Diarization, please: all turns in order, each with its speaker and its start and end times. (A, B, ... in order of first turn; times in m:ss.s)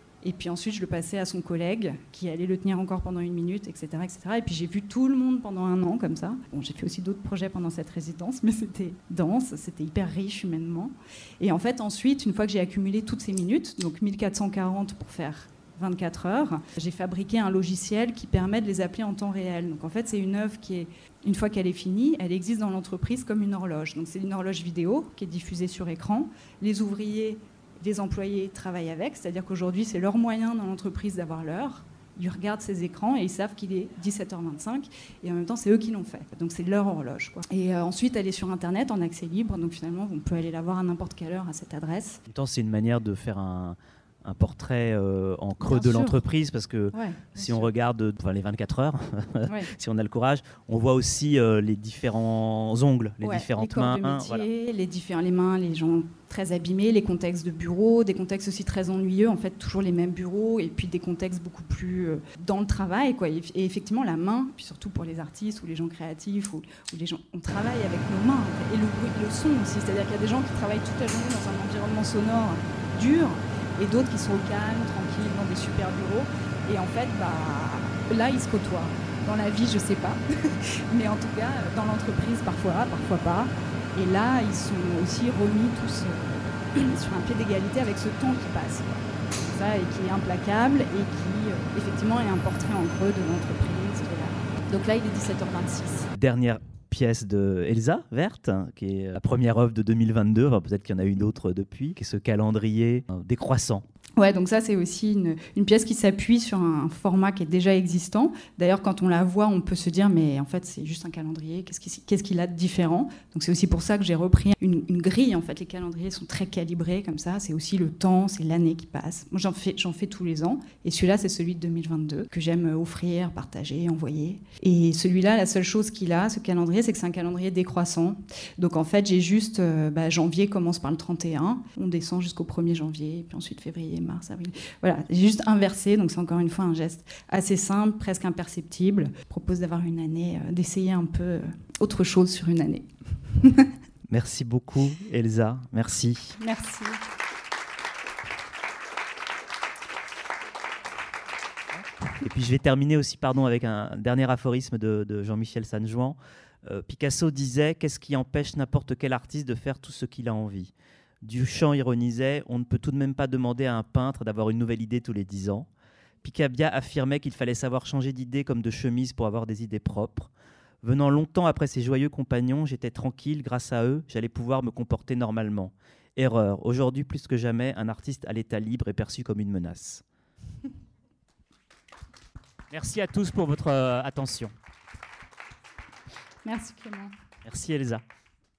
0:00.2-0:42.2 A
0:42.3-0:54.5 B
0:45.6-0:46.2 A
0:46.9-0:47.7 A
0:49.5-0:49.7 A
0:53.2-1:36.1 A
1:36.1-1:43.8 B
1:44.2-2:23.7 A
2:24.1-2:26.4 B
2:26.4-2:27.0 A
2:31.8-2:45.7 B
2:46.2-2:50.3 B
2:50.8-3:00.0 B
3:02.7-3:04.5 B
3:06.4-3:07.1 A
3:07.4-3:08.0 B